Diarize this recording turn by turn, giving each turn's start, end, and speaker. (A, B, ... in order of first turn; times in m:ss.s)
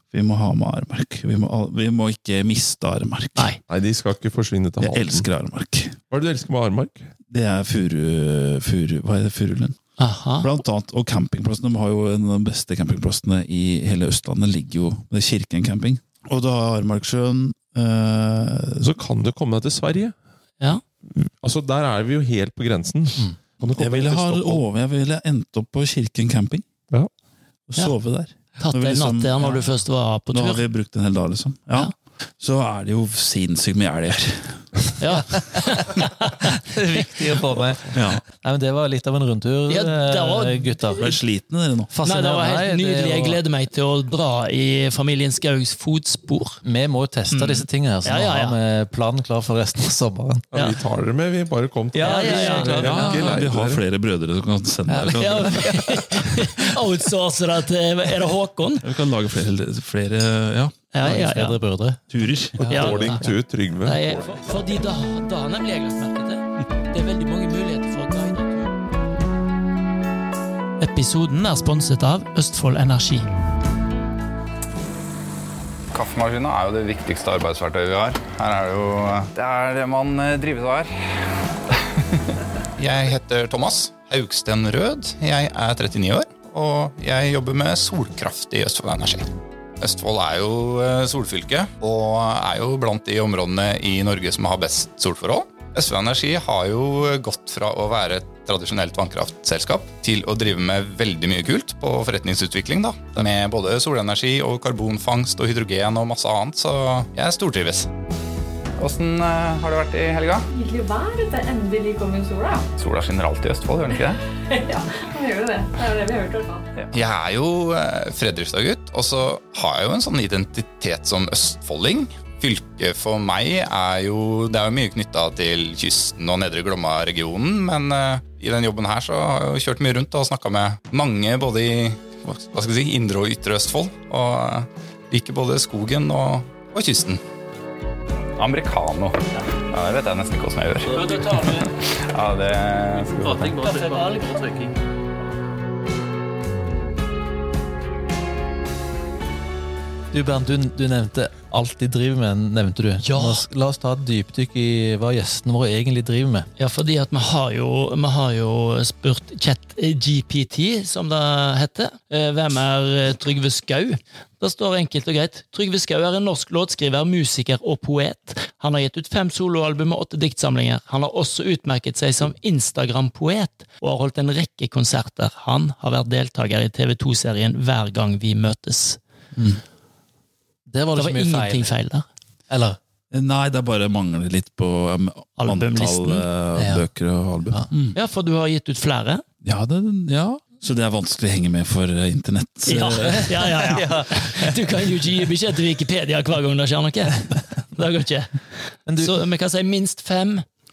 0:00.1-0:03.5 A
0:03.7-0:05.3 B
0:04.8-0:06.0 A
0:06.1-0:07.1 B
0:07.3-0:09.8 A
0:10.0-0:10.5 C
0:10.4-0:18.9 A
0:18.8-0:20.1 B
0:21.0-0:24.6 B
0:23.8-0:26.6 A
0:27.7-0:29.7 A
0:28.6-0:30.6 C
0:30.3-0:34.9 A
0:35.0-0:37.3 C
0:36.4-0:41.2 D
0:37.9-0:38.2 A
0:39.7-0:41.0 C
0:41.0-0:41.9 A
0:41.9-0:43.4 D
0:42.0-0:46.6 C
0:46.6-0:50.4 D
0:47.3-0:48.6 C
0:50.5-0:53.8 B
0:51.9-0:53.5 D
0:52.0-0:52.9 C
0:52.7-0:56.5 A
0:54.9-0:55.9 D
0:55.0-0:58.9 C
0:58.8-1:00.7 A
1:00.9-1:01.6 C
1:01.0-1:02.0 D
1:02.1-1:03.1 A
1:02.6-1:04.4 B
1:02.6-1:03.1 D
1:02.7-1:03.3 C
1:03.8-1:08.7 C
1:10.8-1:13.3 C
1:15.9-1:22.2 E
1:22.8-1:47.9 E
1:48.8-1:50.4 E
1:50.5-1:52.7 F
1:52.8-1:54.2 E
1:53.9-1:56.7 F
1:56.8-2:17.2 E
2:18.4-2:23.6 E
2:20.9-2:21.7 C
2:23.2-2:24.7 D
2:23.6-2:24.4 C
2:30.1-2:36.5 D
2:33.0-2:33.4 C
2:36.6-2:59.0 C
3:00.7-3:01.7 D
3:01.0-3:02.0 C
3:02.5-3:02.8 D
3:03.1-3:08.0 A
3:05.4-3:06.2 C
3:06.6-3:06.8 D
3:07.9-3:09.2 C
3:09.4-3:13.7 A
3:12.7-3:18.4 C
3:13.1-3:14.6 D
3:18.8-3:19.2 D
3:19.0-3:20.4 C